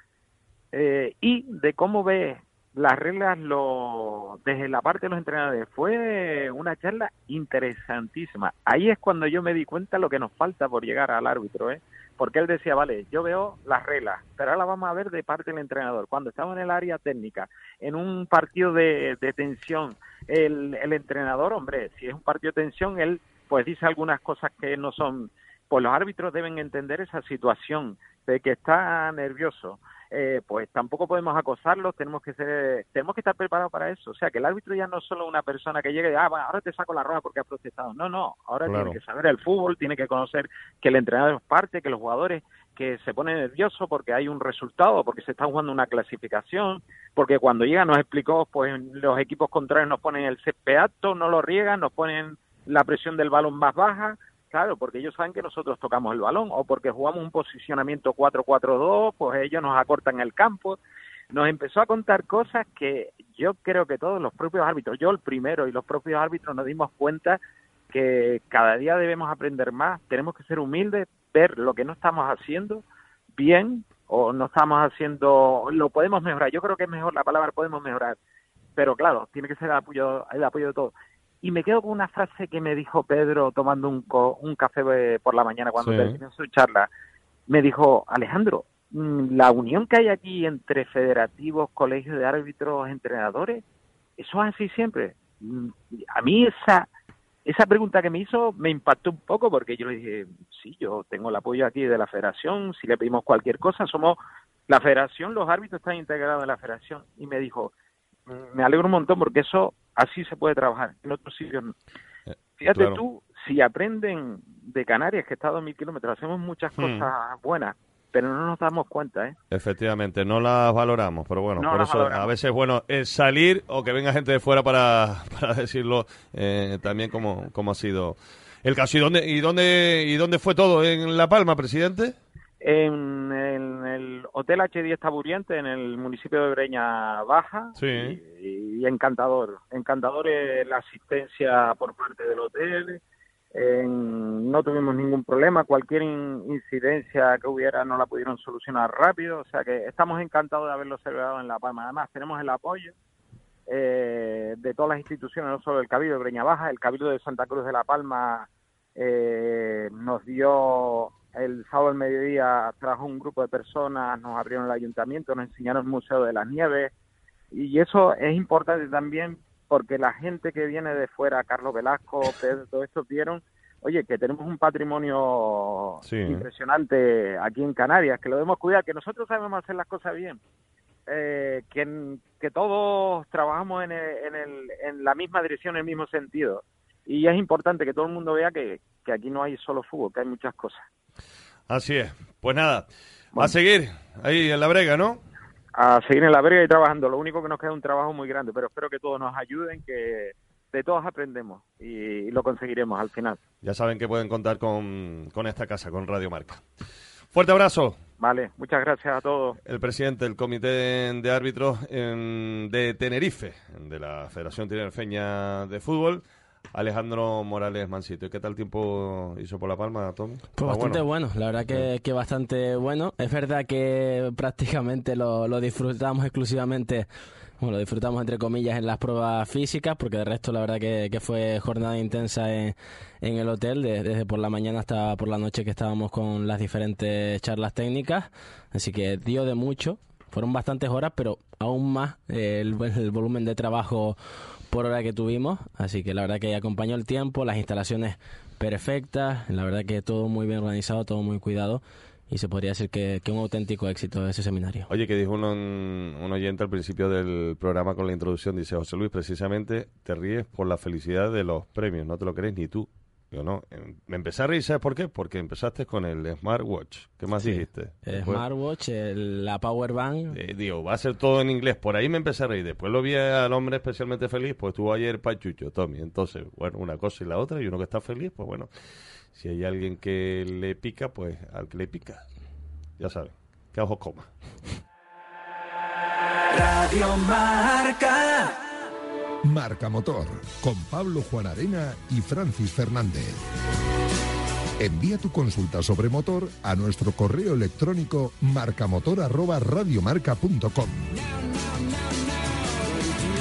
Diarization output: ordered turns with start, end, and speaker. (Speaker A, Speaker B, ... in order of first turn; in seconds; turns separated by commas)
Speaker A: 0.7-60.8, Speaker B: 38.6-39.0, Speaker A: 61.3-67.4, Speaker A: 67.9-72.8, Speaker A: 73.4-78.2, Speaker A: 78.8-86.9, Speaker B: 85.8-86.2, Speaker A: 87.5-93.6, Speaker A: 94.2-96.9, Speaker A: 97.5-107.7, Speaker A: 108.3-111.7, Speaker B: 112.3-113.0, Speaker A: 112.6-119.3, Speaker B: 116.8-117.1, Speaker B: 119.5-132.2, Speaker A: 121.6-122.3, Speaker A: 132.6-143.0, Speaker B: 137.8-138.2, Speaker A: 143.5-152.9, Speaker A: 153.7-166.9, Speaker A: 167.5-180.4, Speaker B: 176.0-176.5, Speaker A: 181.1-190.8, Speaker B: 191.7-195.2, Speaker A: 195.7-203.4, Speaker B: 203.6-206.6, Speaker B: 207.3-208.0, Speaker A: 208.2-209.6, Speaker B: 209.7-221.0, Speaker C: 220.6-227.1, Speaker C: 227.6-244.2, Speaker C: 244.7-254.9, Speaker B: 254.9-268.4, Speaker C: 267.4-270.4, Speaker B: 270.3-278.7, Speaker B: 279.3-282.2, Speaker B: 283.0-284.3, Speaker D: 286.5-288.5, Speaker E: 289.4-293.4, Speaker E: 294.8-301.1